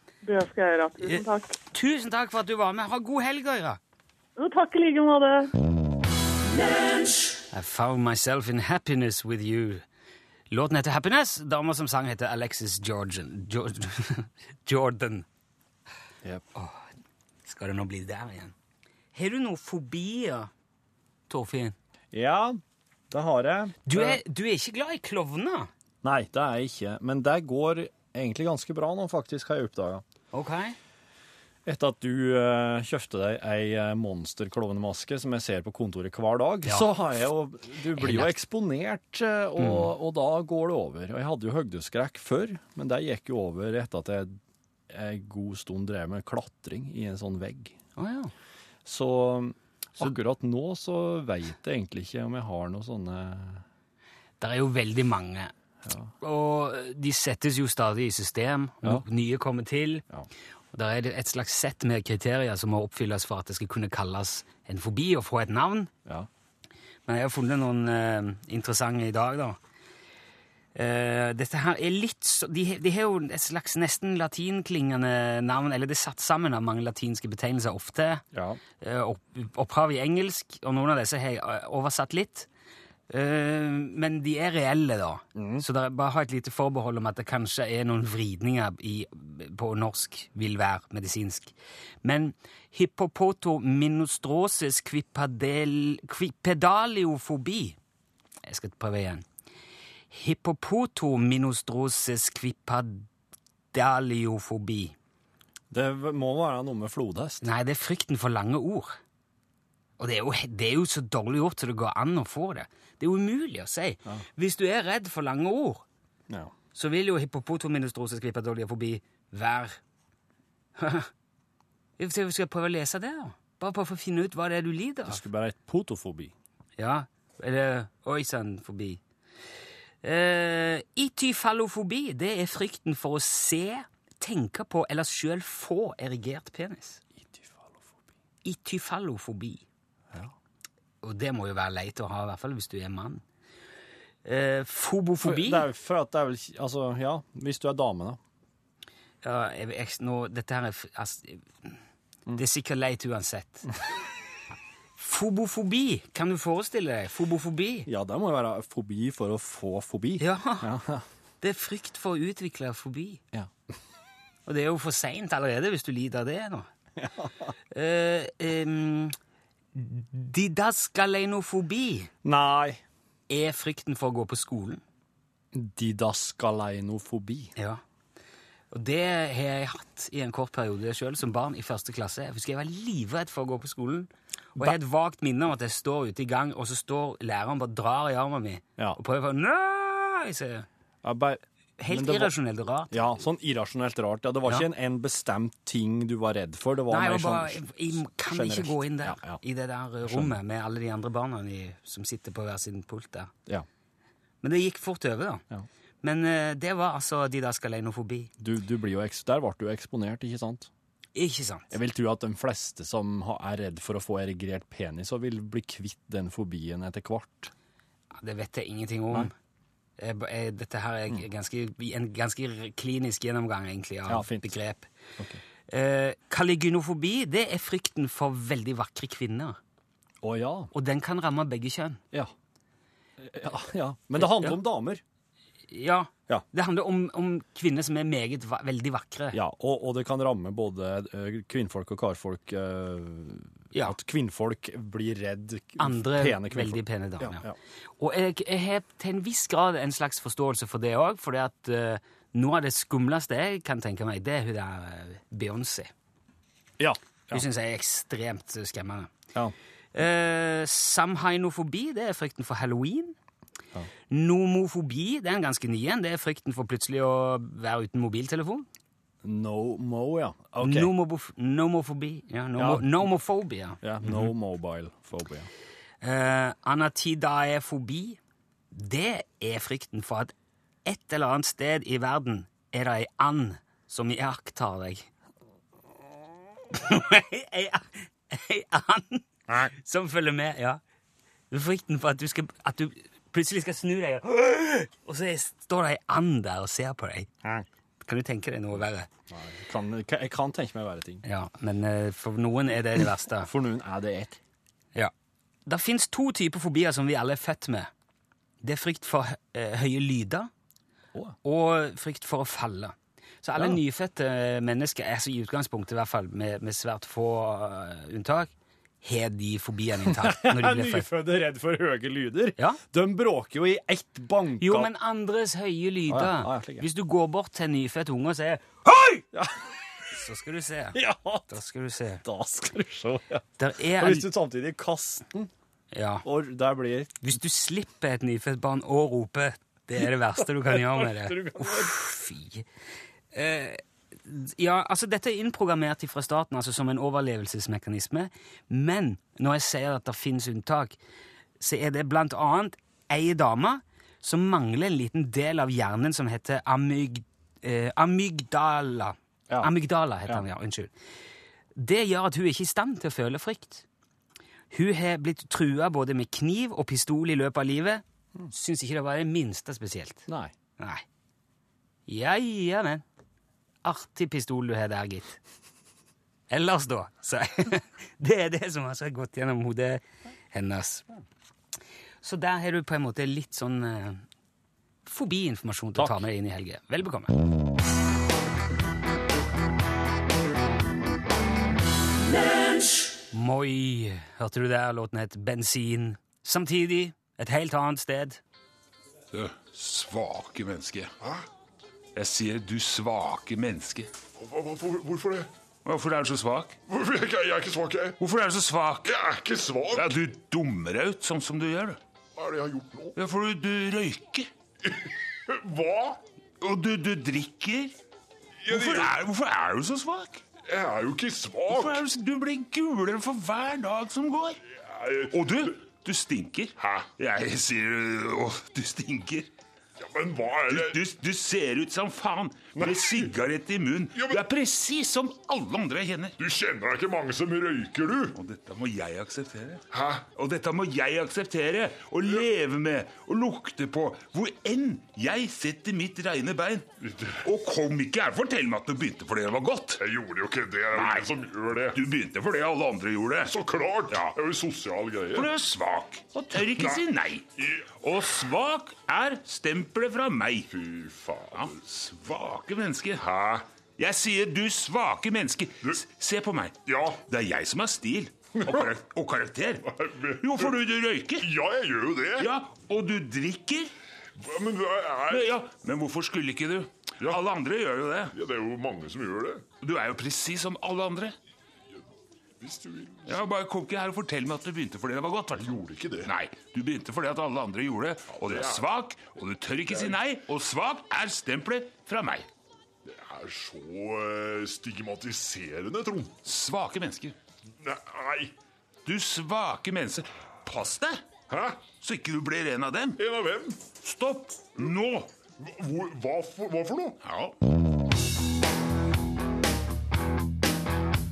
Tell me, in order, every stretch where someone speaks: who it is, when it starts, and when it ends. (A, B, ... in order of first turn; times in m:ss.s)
0:00.2-0:01.5 A
0:01.0-0:03.8 B
0:04.4-0:05.5 A
0:07.5-0:09.8 B
0:10.5-0:15.2 B
0:17.4-0:18.5 B
0:19.1-0:20.5 B
0:21.3-0:21.8 B
0:22.1-0:22.6 C
0:23.1-0:24.2 C
0:23.8-0:25.7 B
0:26.0-0:30.0 C
0:30.3-0:30.8 B
0:31.6-0:44.3 C
0:37.9-0:38.3 B
0:39.6-0:39.9 B
0:44.9-0:47.7 C
0:48.0-0:48.3 B
0:48.8-0:53.6 C
0:54.4-0:55.5 B
0:56.2-1:00.0 B
1:00.7-1:05.9 B
1:07.0-1:09.6 B
1:10.7-1:18.2 B
1:18.3-1:18.6 C
1:18.8-1:22.5 B
1:23.1-1:37.8 B
1:25.4-1:25.6 C
1:38.4-1:39.2 B
1:40.1-1:43.0 B
1:43.7-1:44.9 B
1:45.7-1:47.4 C
1:47.4-1:49.0 B
1:50.0-1:55.8 B
1:56.7-1:59.8 B
2:00.8-2:01.1 B
2:02.0-2:05.2 B
2:05.1-2:06.3 C
2:06.8-2:09.0 B
2:10.0-2:17.0 B
2:17.2-2:17.9 C
2:18.4-2:19.6 B
2:21.0-2:23.2 B
2:24.2-2:25.7 B
2:25.2-2:28.2 C
2:29.2-2:31.8 B
2:32.3-2:33.7 B
2:35.0-2:37.9 B
2:37.9-2:41.0 C
2:40.2-2:40.7 B
2:41.4-2:43.2 B
2:44.4-2:46.7 B
2:47.0-2:47.5 C
2:47.7-2:49.2 B
2:49.7-2:52.1 B
2:52.2-2:52.8 C
2:53.3-2:54.8 B
2:55.5-2:57.5 C
2:57.6-2:57.8 B
2:58.7-3:10.6 B
3:11.0-3:12.3 C
3:11.8-3:13.2 B
3:12.9-3:19.4 C
3:16.9-3:23.3 B
3:20.0-3:20.4 C
3:24.4-3:25.4 B
3:26.0-3:28.3 B
3:28.4-3:30.7 C
3:31.1-3:31.7 B
3:31.7-3:37.5 C
3:38.2-3:39.3 B
3:40.0-3:44.9 B
3:44.1-3:44.6 C
3:45.7-3:49.6 B
3:50.2-3:50.7 C
3:50.7-3:52.0 B
3:53.2-3:55.0 C
3:54.2-3:54.6 B
3:55.7-3:59.4 B
3:59.3-4:07.5 C
4:05.8-4:07.4 B
4:08.0-4:15.9 B
4:16.8-4:17.4 C
4:17.3-4:19.1 B
4:19.9-4:23.1 B
4:24.1-4:28.7 B
4:29.2-4:30.9 C
4:30.6-4:33.8 B
4:32.6-4:33.1 C
4:33.8-4:35.5 C
4:36.0-4:38.2 B
4:38.7-4:40.3 B
4:40.8-4:45.1 B
4:46.7-4:50.8 B
4:51.5-4:57.3 B
4:58.0-4:59.1 B
4:59.3-5:01.2 C
5:01.2-5:03.5 B
5:03.4-5:04.4 C
5:05.6-5:07.9 B
5:08.6-5:10.5 B
5:11.4-5:18.5 B
5:19.0-5:21.1 B
5:20.0-5:24.9 C
5:24.6-5:29.1 B
5:26.1-5:26.8 C
5:30.1-5:32.2 B
5:30.9-5:31.5 C
5:32.2-5:33.4 C
5:33.6-5:34.3 B
5:34.0-5:35.5 C
5:35.9-5:36.2 B
5:36.2-5:37.2 C
5:37.2-5:42.6 B
5:40.7-5:42.0 C
5:43.3-5:51.0 B
5:51.6-6:00.9 B
6:01.8-6:03.8 B
6:04.7-6:10.2 B
6:10.3-6:10.5 C
6:10.8-6:11.0 B
6:12.1-6:13.0 B
6:13.8-6:15.4 B
6:16.5-6:21.0 B
6:22.2-6:24.2 B
6:25.0-6:27.3 B
6:33.3-6:38.4 B
6:39.3-6:41.1 D
6:42.2-6:44.1 D
6:44.4-6:45.5 E
6:45.8-6:46.8 D
6:46.9-6:48.2 E
6:48.2-6:49.2 D
6:49.0-6:50.1 E
6:49.9-6:52.0 D
6:52.4-6:53.2 E
6:53.2-6:54.5 D
6:54.8-6:56.2 E
6:56.6-6:57.9 D
6:58.6-6:59.2 E
6:58.7-7:00.4 D
7:00.7-7:02.0 E
7:01.7-7:04.6 D
7:04.8-7:05.7 E
7:05.3-7:09.5 D
7:06.8-7:07.1 E
7:10.0-7:11.0 E
7:10.7-7:16.4 D
7:12.8-7:13.3 E
7:14.1-7:14.4 E
7:16.4-7:18.4 E
7:18.3-7:26.9 D
7:19.9-7:20.3 E
7:27.0-7:27.4 E
7:27.4-7:30.0 D
7:30.0-7:32.0 E
7:30.9-7:31.3 D
7:31.9-7:33.5 D
7:33.4-7:35.5 E
7:34.1-7:34.4 D
7:35.3-7:37.5 D
7:36.6-7:37.0 E
7:37.6-7:37.9 E
7:38.0-7:40.7 D
7:40.7-7:41.8 E
7:41.5-7:43.3 D
7:43.2-7:43.6 E
7:44.0-7:51.5 D
7:46.8-7:47.2 E
7:48.6-7:49.0 E
7:49.8-7:50.8 E
7:51.4-7:52.5 E
7:52.4-7:53.9 D
7:54.4-7:55.5 E
7:55.3-7:58.3 D
7:58.3-7:59.6 E
7:59.8-8:01.3 D
8:02.6-8:03.4 E
8:03.2-8:12.5 D
8:05.5-8:06.3 E
8:08.3-8:08.8 E
8:09.9-8:10.2 E
8:13.0-8:16.3 E
8:16.4-8:17.3 D
8:17.8-8:18.5 E
8:19.0-8:21.2 D
8:21.5-8:21.9 E
8:21.9-8:23.2 D
8:23.2-8:23.8 E
8:24.0-8:25.3 D
8:25.6-8:27.2 E
8:27.2-8:27.5 D